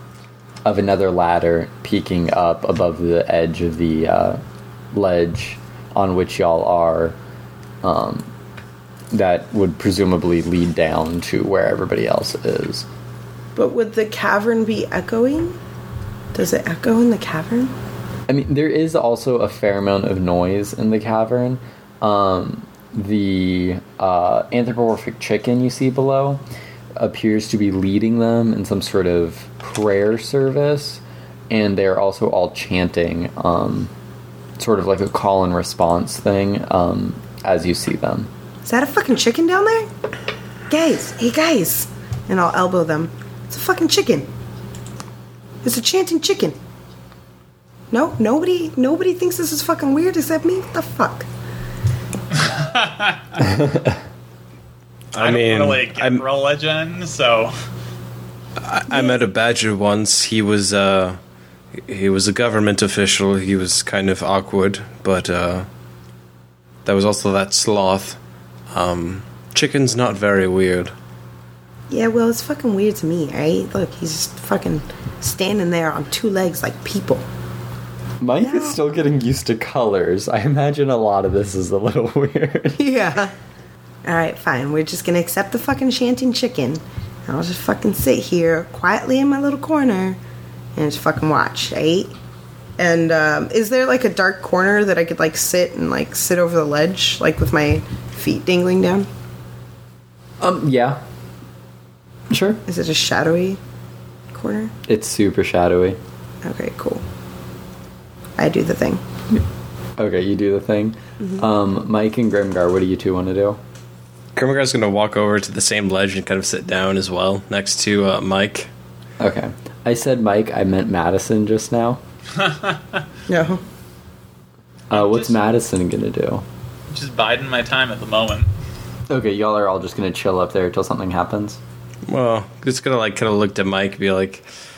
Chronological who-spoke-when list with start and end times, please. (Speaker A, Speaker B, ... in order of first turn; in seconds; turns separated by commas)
Speaker A: 0.7-4.4, Speaker A: 4.9-7.2, Speaker A: 7.8-8.3, Speaker A: 9.1-12.9, Speaker B: 13.6-15.6, Speaker B: 16.3-17.7, Speaker A: 18.3-26.4, Speaker A: 27.0-33.9, Speaker A: 34.6-38.3, Speaker B: 38.6-39.9, Speaker B: 40.7-44.3, Speaker B: 45.6-46.6, Speaker B: 47.9-51.3, Speaker C: 52.3-53.5, Speaker A: 53.5-54.0, Speaker D: 55.1-56.2, Speaker C: 55.2-57.5, Speaker D: 58.6-61.2, Speaker B: 58.9-59.2, Speaker D: 61.9-65.7, Speaker D: 66.8-68.2, Speaker D: 68.7-70.9, Speaker B: 71.9-77.2, Speaker A: 78.2-82.8, Speaker B: 78.4-78.8, Speaker B: 82.8-83.3, Speaker B: 84.0-90.2, Speaker B: 90.8-92.1, Speaker B: 92.8-99.1, Speaker A: 100.4-101.0, Speaker A: 102.3-102.6, Speaker B: 102.7-103.6, Speaker B: 104.3-104.7, Speaker A: 104.9-106.0, Speaker B: 106.4-107.0, Speaker B: 108.4-109.0, Speaker A: 110.0-113.6, Speaker D: 114.4-118.7, Speaker A: 119.2-122.0, Speaker C: 122.3-123.0, Speaker B: 123.3-123.6, Speaker A: 124.9-126.4, Speaker C: 124.9-125.4, Speaker C: 126.9-128.5, Speaker A: 129.1-131.6, Speaker D: 132.1-134.4